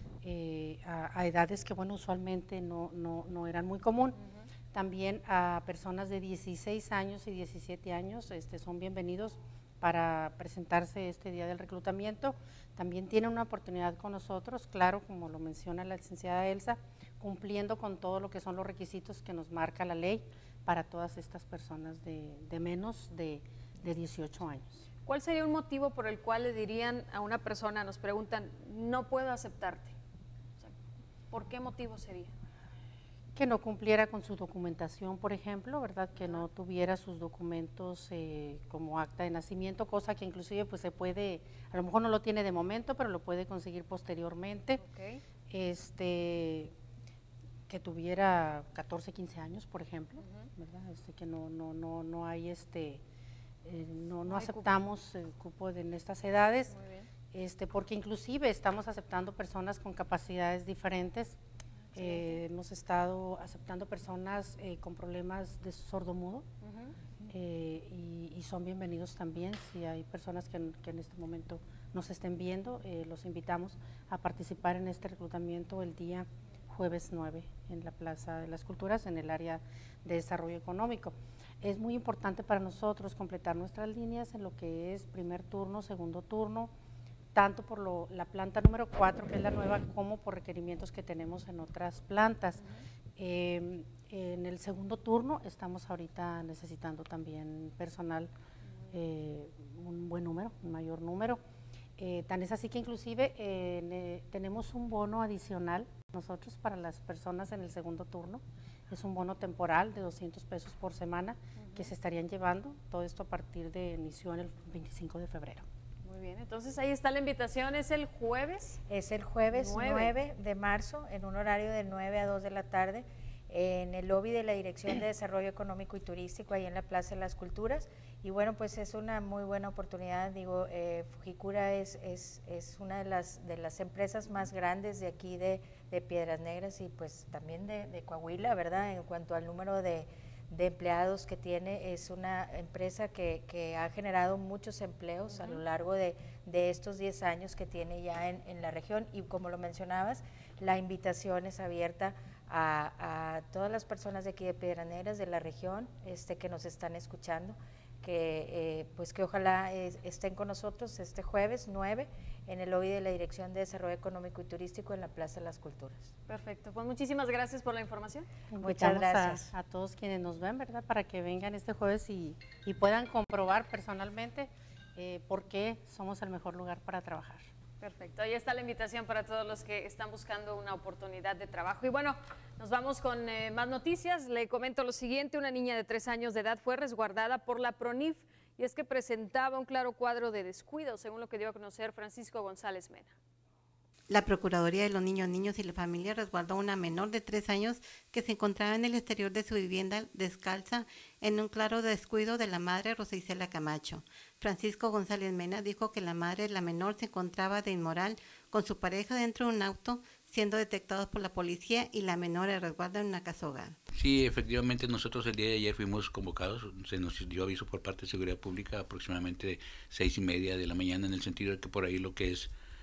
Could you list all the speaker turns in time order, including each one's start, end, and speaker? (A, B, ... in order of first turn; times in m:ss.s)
0:00.2-0:04.2 A
0:04.2-0:04.5 B
0:04.7-0:24.9 A
0:25.1-0:30.0 B
0:31.3-0:32.3 B
0:33.4-0:44.8 A
0:36.2-0:36.5 B
0:44.8-0:45.2 B
0:45.5-0:46.7 A
0:47.7-0:53.0 A
0:50.2-0:50.5 B
0:53.6-0:56.8 A
0:54.2-0:54.8 B
0:56.7-0:57.1 B
0:57.3-1:01.4 A
1:02.0-1:06.5 A
1:02.0-1:02.4 B
1:06.6-1:07.0 B
1:07.3-1:26.7 A
1:27.4-1:32.6 A
1:32.6-1:32.8 B
1:33.2-1:38.3 A
1:38.7-1:39.0 B
1:38.9-1:41.4 A
1:42.0-1:55.7 A
1:51.6-1:51.9 B
1:56.0-1:58.8 B
1:58.9-2:46.1 C
1:59.5-2:00.2 B
2:25.3-2:25.6 B
2:46.3-2:48.3 B
2:48.5-2:57.5 A
2:48.6-2:49.5 C
2:57.8-3:13.2 B
3:14.1-3:33.8 D
3:34.0-3:42.5 E